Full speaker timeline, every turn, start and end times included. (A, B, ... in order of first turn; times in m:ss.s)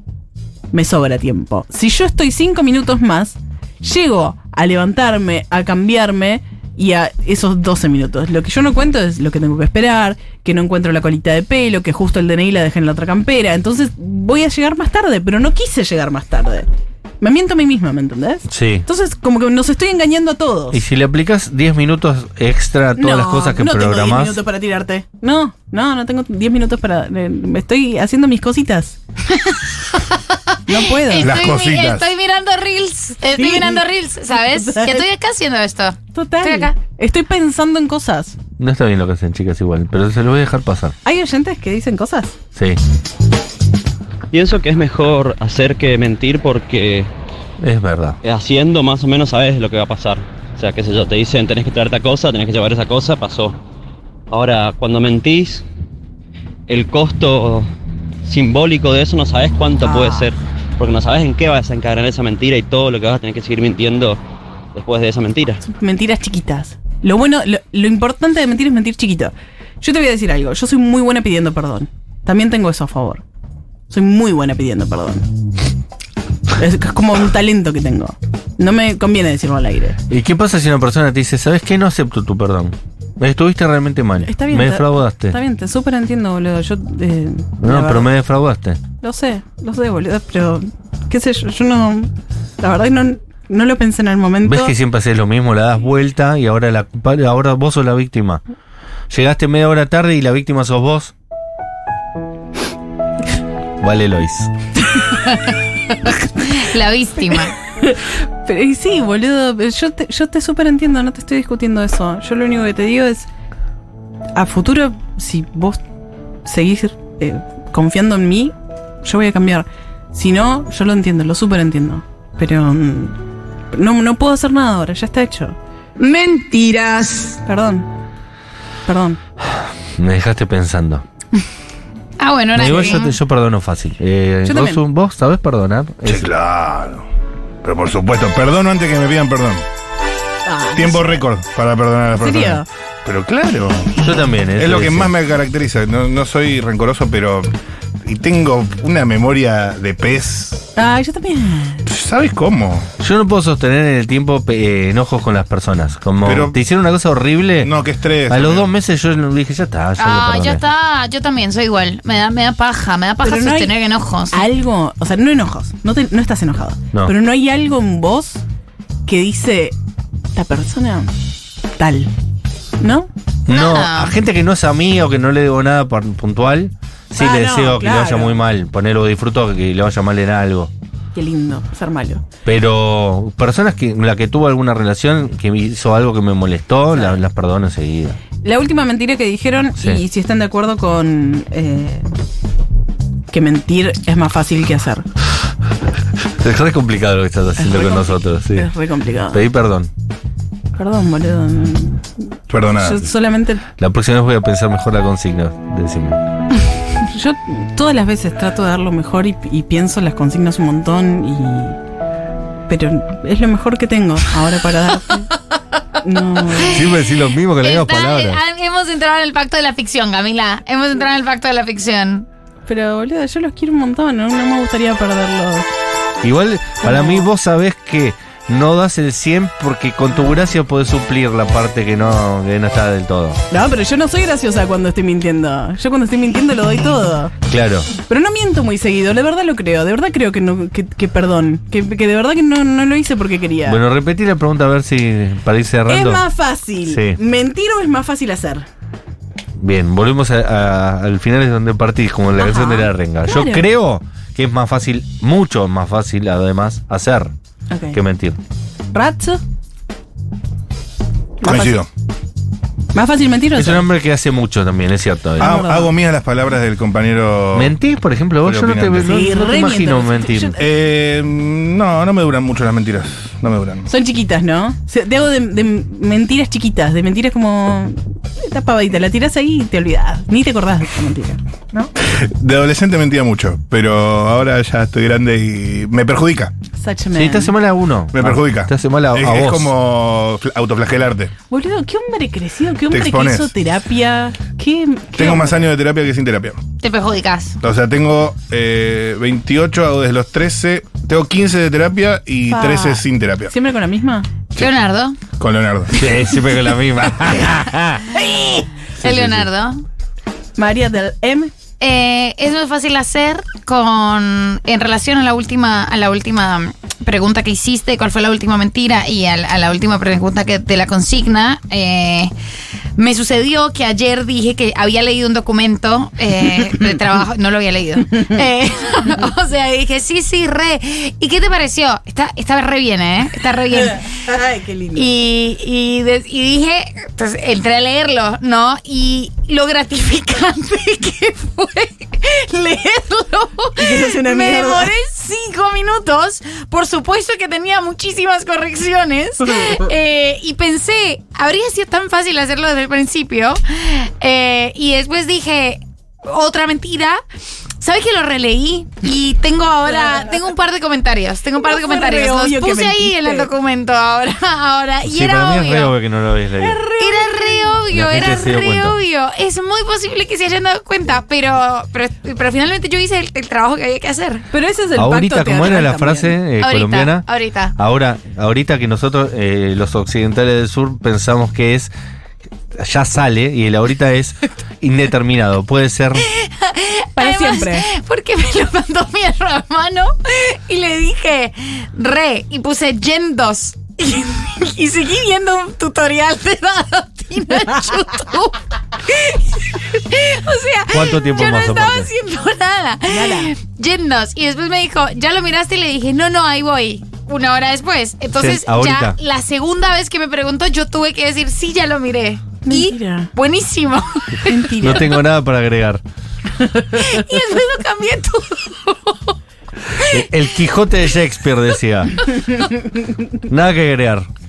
0:00.7-0:16.7 A
0:17.2-0:20.8 A
0:18.5-0:18.9 B
0:20.7-0:24.4 B
0:23.0-0:29.0 A
0:29.3-0:36.8 C
0:30.7-0:31.3 A
0:31.1-0:32.1 D
0:33.3-0:33.8 A
0:34.4-0:35.1 A
0:36.1-0:38.4 A
0:38.6-0:40.9 B
0:41.0-0:42.4 A
0:42.6-0:42.8 B
0:44.3-0:47.1 E
0:47.6-0:48.2 B
0:48.2-0:53.6 E
0:54.3-0:55.6 E
0:56.7-0:57.7 E
0:58.2-1:04.2 E
0:59.8-1:00.3 A
1:04.8-1:05.6 E
1:05.7-1:13.2 A
1:13.9-1:15.3 A
1:16.6-1:20.0 A
1:20.1-1:25.4 B
1:24.2-1:28.1 A
1:27.6-1:28.8 B
1:29.0-1:34.7 A
1:34.4-1:38.4 B
1:39.1-1:41.1 B
1:43.8-1:44.5 B
1:44.9-1:47.6 C
1:47.8-1:53.3 A
1:54.4-1:55.8 A
1:56.4-2:03.2 A
2:03.7-2:05.6 A
2:06.0-2:07.4 C
2:07.4-2:07.9 A
2:08.9-2:09.2 A
2:10.0-2:11.0 B
2:12.2-2:13.2 C
2:12.6-2:16.3 B
2:14.4-2:14.8 A
2:16.0-2:17.1 D
2:17.6-2:19.6 D
2:20.4-2:21.1 A
2:20.8-2:24.0 D
2:22.2-2:22.7 A
2:24.0-2:25.1 B
2:24.6-2:27.5 D
2:28.0-2:30.7 D
2:30.8-2:31.8 A
2:31.9-2:32.9 D
2:33.0-2:37.8 B
2:36.2-2:36.6 D
2:37.6-2:38.7 D
2:38.3-2:40.6 B
2:40.0-2:44.4 C
2:43.2-2:43.7 A
2:44.3-2:48.4 A
2:49.1-2:49.8 A
2:50.4-2:51.1 A
2:51.8-2:52.1 A
2:52.8-2:53.1 A
2:53.5-3:00.7 B
2:53.5-2:54.2 C
2:57.2-2:58.4 A
3:01.1-3:02.2 A
3:02.4-3:08.2 B
3:06.9-3:07.2 A
3:08.4-3:12.1 A
3:09.8-3:10.0 B
3:13.3-3:15.0 A
3:16.4-3:18.7 B
3:17.6-3:19.4 A
3:19.3-3:19.9 B
3:20.8-3:22.1 A
3:22.5-3:23.0 D
3:22.7-3:23.6 A
3:23.8-3:26.2 B
3:27.0-3:31.8 A
3:32.7-3:35.3 A
3:36.0-3:36.8 A
3:36.6-3:38.4 B
3:37.5-3:42.3 C
3:42.7-3:45.7 A
3:46.2-3:53.4 B
3:46.8-3:47.3 A
3:53.5-3:57.3 A
3:57.5-3:57.9 B
3:58.0-4:03.8 A
4:03.6-4:06.3 B
4:05.9-4:08.7 A
4:06.9-4:07.2 B
4:09.6-4:17.3 B
4:12.4-4:13.7 A
4:17.7-4:18.0 A
4:17.9-4:18.4 B
4:18.9-4:19.4 A
4:21.4-4:21.8 A
4:21.4-4:21.9 D
4:22.9-4:23.9 A
4:23.6-4:25.6 B
4:25.4-4:26.0 A
4:25.4-4:27.8 D
4:27.5-4:30.6 B
4:28.4-4:29.0 D
4:29.0-4:30.6 A
4:30.6-4:33.9 D
4:33.9-4:41.9 A
4:42.0-4:46.5 D
4:46.8-4:47.5 A
4:47.1-4:49.7 B
4:48.1-4:51.3 D
4:51.5-4:55.6 A
4:52.9-4:53.5 D
4:55.2-4:56.6 D
4:56.8-4:57.6 C
4:57.6-5:03.5 D
5:02.5-5:04.3 A
5:04.6-5:05.2 C
5:05.4-5:06.0 D
5:05.9-5:08.1 B
5:08.1-5:09.8 C
5:09.0-5:09.5 B
5:10.6-5:11.5 A
5:11.8-5:22.3 C
5:23.0-5:34.2 C
5:33.9-5:35.1 A
5:34.9-5:57.2 C
5:43.8-5:44.9 A
5:57.8-6:06.0 C
6:01.6-6:03.5 A
6:05.0-6:06.8 B
6:06.6-6:07.9 A
6:07.0-6:14.5 C
6:07.9-6:09.0 B
6:14.5-6:16.4 A
6:15.0-6:21.9 B
6:16.6-6:17.8 C
6:22.8-6:26.3 B
6:26.2-6:54.7 C
6:27.2-6:27.9 A
6:40.9-6:42.1 B
6:43.1-6:43.5 A
6:48.4-6:49.2 B
6:52.6-6:53.3 A
6:54.5-6:55.2 A
6:54.8-6:56.0 B
6:56.6-6:57.0 A
6:56.9-6:59.4 C
6:59.9-7:00.2 C
7:00.1-7:02.6 B
7:03.5-7:04.3 B